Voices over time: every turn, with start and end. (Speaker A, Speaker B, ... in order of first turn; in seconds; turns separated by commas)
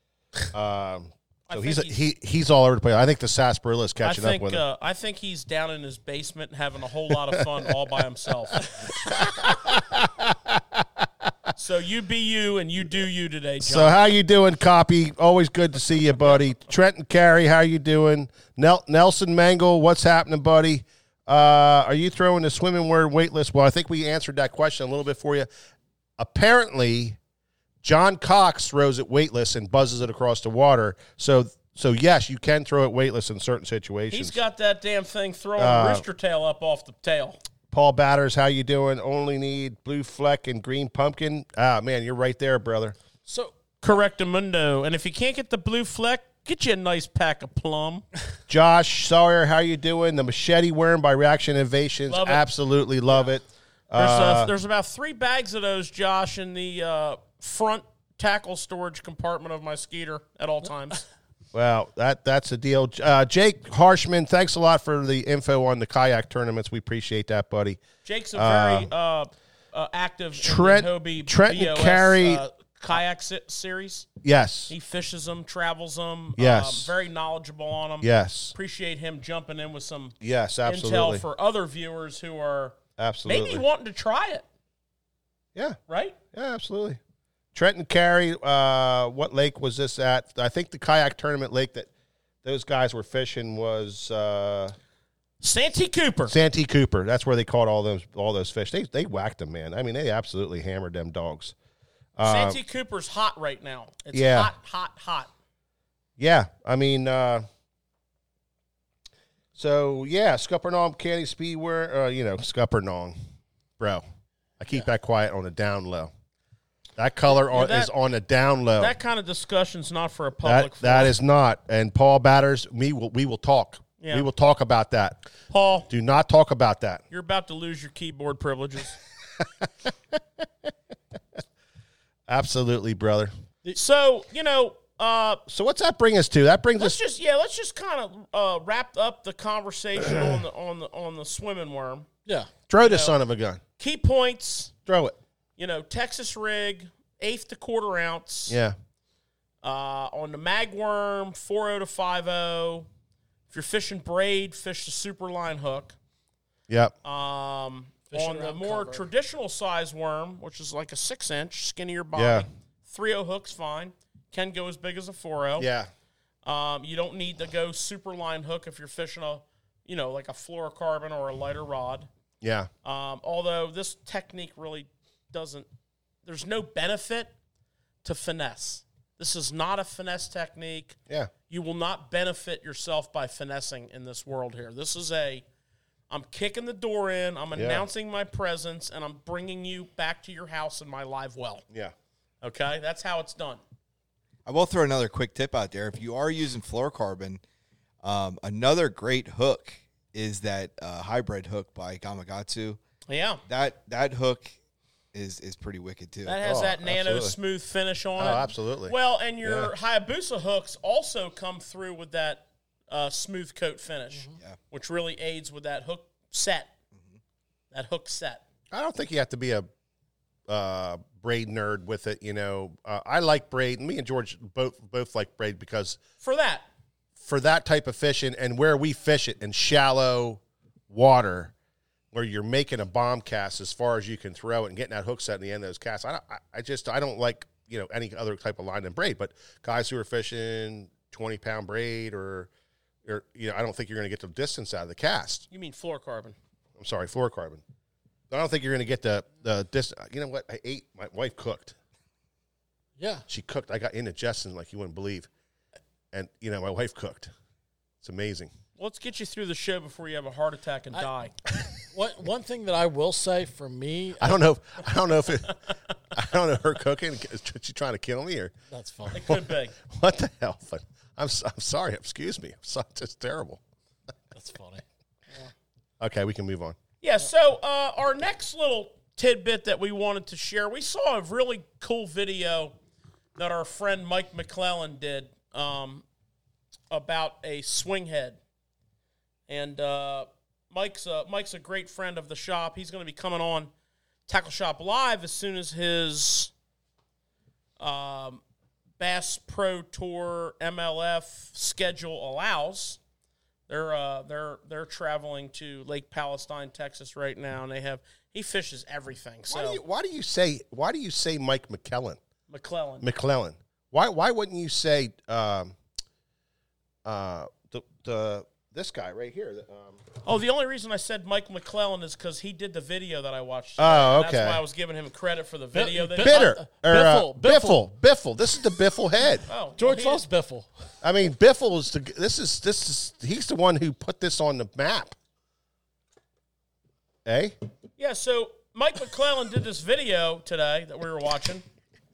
Speaker A: 0.5-4.6, Speaker B: 1.5-2.0, Speaker B: 4.0-8.7, Speaker A: 8.9-11.3, Speaker B: 11.6-14.0, Speaker A: 13.6-25.5, Speaker A: 26.2-27.2, Speaker A: 27.8-34.4, Speaker B: 34.1-37.4, Speaker A: 35.6-36.0, Speaker A: 37.7-43.0, Speaker C: 43.3-43.5, Speaker B: 43.8-48.0, Speaker A: 48.5-54.5, Speaker B: 52.1-52.5, Speaker B: 53.9-61.0, Speaker A: 61.5-67.8, Speaker B: 68.0-74.1, Speaker A: 68.3-68.9, Speaker A: 70.3-72.4, Speaker A: 74.2-74.7, Speaker B: 74.7-84.5, Speaker A: 76.4-76.9, Speaker A: 78.0-78.6, Speaker A: 80.2-81.2, Speaker A: 83.0-83.7, Speaker B: 85.9-86.2, Speaker A: 86.3-87.0, Speaker A: 87.5-91.9, Speaker A: 92.4-94.8, Speaker B: 95.4-96.3, Speaker A: 96.3-101.5, Speaker A: 102.2-102.6, Speaker B: 102.2-105.3, Speaker A: 104.1-104.5, Speaker A: 106.2-107.5, Speaker A: 109.5-113.2, Speaker A: 114.6-116.1, Speaker A: 117.0-119.0, Speaker B: 117.4-117.9, Speaker B: 118.8-121.2, Speaker A: 120.4-125.3, Speaker B: 124.0-124.3, Speaker B: 125.5-125.9, Speaker A: 125.9-127.0, Speaker B: 127.1-129.0, Speaker A: 129.6-129.9, Speaker A: 132.3-133.3, Speaker B: 133.8-135.4, Speaker A: 135.5-137.0, Speaker B: 136.8-142.1, Speaker A: 140.0-140.4, Speaker A: 142.7-143.6, Speaker B: 142.8-143.2, Speaker B: 143.8-144.7, Speaker A: 144.9-145.2, Speaker B: 145.6-148.6, Speaker A: 148.5-148.8, Speaker B: 149.6-152.9, Speaker B: 153.5-156.0, Speaker A: 156.7-156.9, Speaker B: 157.0-165.7, Speaker C: 158.1-159.1, Speaker A: 162.2-162.5, Speaker A: 165.6-165.9, Speaker B: 166.4-172.1, Speaker A: 172.4-172.7, Speaker B: 172.8-175.7, Speaker B: 176.2-177.3, Speaker B: 178.0-181.0, Speaker B: 181.5-185.4, Speaker B: 186.1-191.7, Speaker A: 187.5-187.8, Speaker B: 192.4-193.6, Speaker D: 194.4-197.4, Speaker D: 198.0-202.8, Speaker B: 203.1-203.4, Speaker D: 203.5-204.6, Speaker D: 205.1-206.5, Speaker B: 206.2-216.7, Speaker A: 206.4-207.3, Speaker D: 207.1-207.3, Speaker A: 208.2-209.7, Speaker C: 214.1-214.4, Speaker B: 217.7-218.4, Speaker A: 218.7-219.7, Speaker A: 220.5-226.0, Speaker B: 226.2-226.7, Speaker A: 227.2-231.5, Speaker A: 232.1-242.5, Speaker A: 243.1-245.4, Speaker B: 245.5-246.4, Speaker A: 246.8-247.6, Speaker A: 248.3-251.8, Speaker C: 253.0-253.3, Speaker A: 253.3-255.3, Speaker A: 256.1-257.3, Speaker A: 258.0-258.5, Speaker B: 258.8-261.3, Speaker C: 261.9-264.4, Speaker A: 264.2-265.6, Speaker A: 266.1-268.5, Speaker C: 268.7-269.2, Speaker A: 269.1-273.6, Speaker B: 269.1-269.7, Speaker C: 274.3-274.8, Speaker A: 276.0-276.8, Speaker B: 277.0-282.7, Speaker B: 283.4-286.1, Speaker B: 286.9-288.4, Speaker B: 289.5-293.7, Speaker B: 294.3-296.5, Speaker B: 297.8-298.4, Speaker B: 299.0-303.0, Speaker B: 303.7-309.8, Speaker A: 309.5-312.2, Speaker B: 312.5-313.1, Speaker A: 313.0-315.8, Speaker A: 317.1-320.0, Speaker B: 320.2-326.6, Speaker A: 323.8-324.6, Speaker C: 325.7-327.8, Speaker A: 326.2-329.4, Speaker B: 329.5-330.2, Speaker C: 329.8-330.7, Speaker A: 331.0-335.1, Speaker A: 337.2-337.6, Speaker B: 338.0-341.6